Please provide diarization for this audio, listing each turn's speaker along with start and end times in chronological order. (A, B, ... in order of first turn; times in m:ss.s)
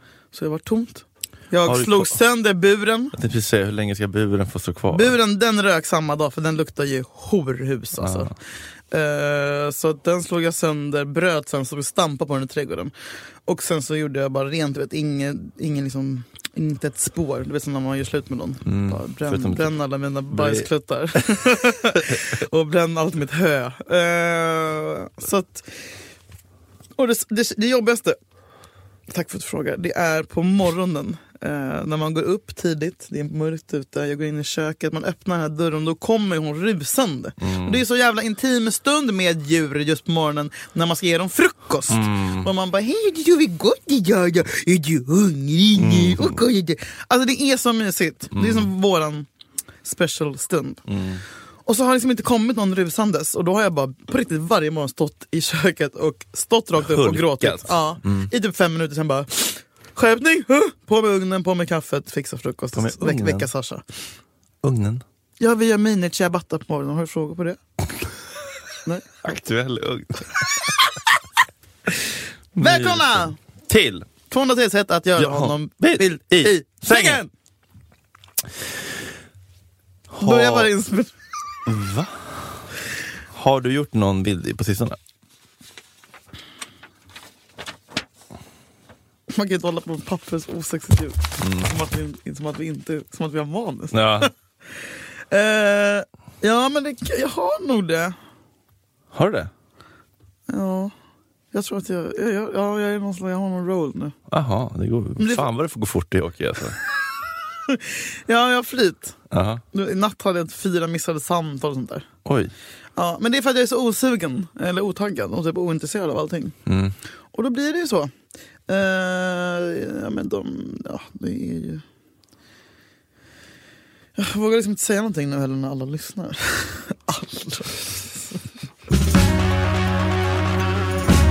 0:00.3-0:03.2 A
0:01.6-0:02.2 B
0:03.1-0:05.2 B
0:04.9-0:08.3 A
0:08.0-0:08.3 B
0:08.9-0:12.9 A
0:13.5-0:25.7 A
0:18.7-0:19.8 B
0:20.3-0:22.2 B
0:27.0-0:28.2 A
0:29.1-0:49.3 A
0:37.4-0:37.8 B
0:41.9-0:42.5 B
0:45.8-0:46.4 B
0:48.3-0:48.7 B
0:49.8-0:50.8 A
0:50.9-0:51.2 B
0:51.7-1:03.8 A
0:56.8-0:58.3 B
1:02.7-1:03.5 B
1:04.6-1:05.0 B
1:05.4-1:07.6 A
1:09.2-1:10.8 B
1:12.6-1:14.1 B
1:12.6-1:13.4 A
1:14.3-1:17.3 A
1:15.2-1:17.2 B
1:20.1-1:20.7 B
1:20.2-1:21.1 A
1:21.7-1:22.6 B
1:23.3-1:25.0 B
1:29.3-1:34.3 A
1:31.4-1:31.7 B
1:33.9-1:34.3 B
1:35.3-1:38.2 A
1:39.1-1:39.5 B
1:40.5-1:40.9 A
1:41.5-1:44.2 A
1:44.3-1:46.8 B
1:45.2-1:45.5 A
1:47.7-1:49.2 A
1:49.3-1:49.6 B
1:49.7-1:52.1 A
1:52.2-1:52.5 B
1:53.0-1:56.6 A
1:56.7-1:57.0 B
1:57.3-1:58.1 A
1:58.7-2:01.8 A
2:04.2-2:08.4 A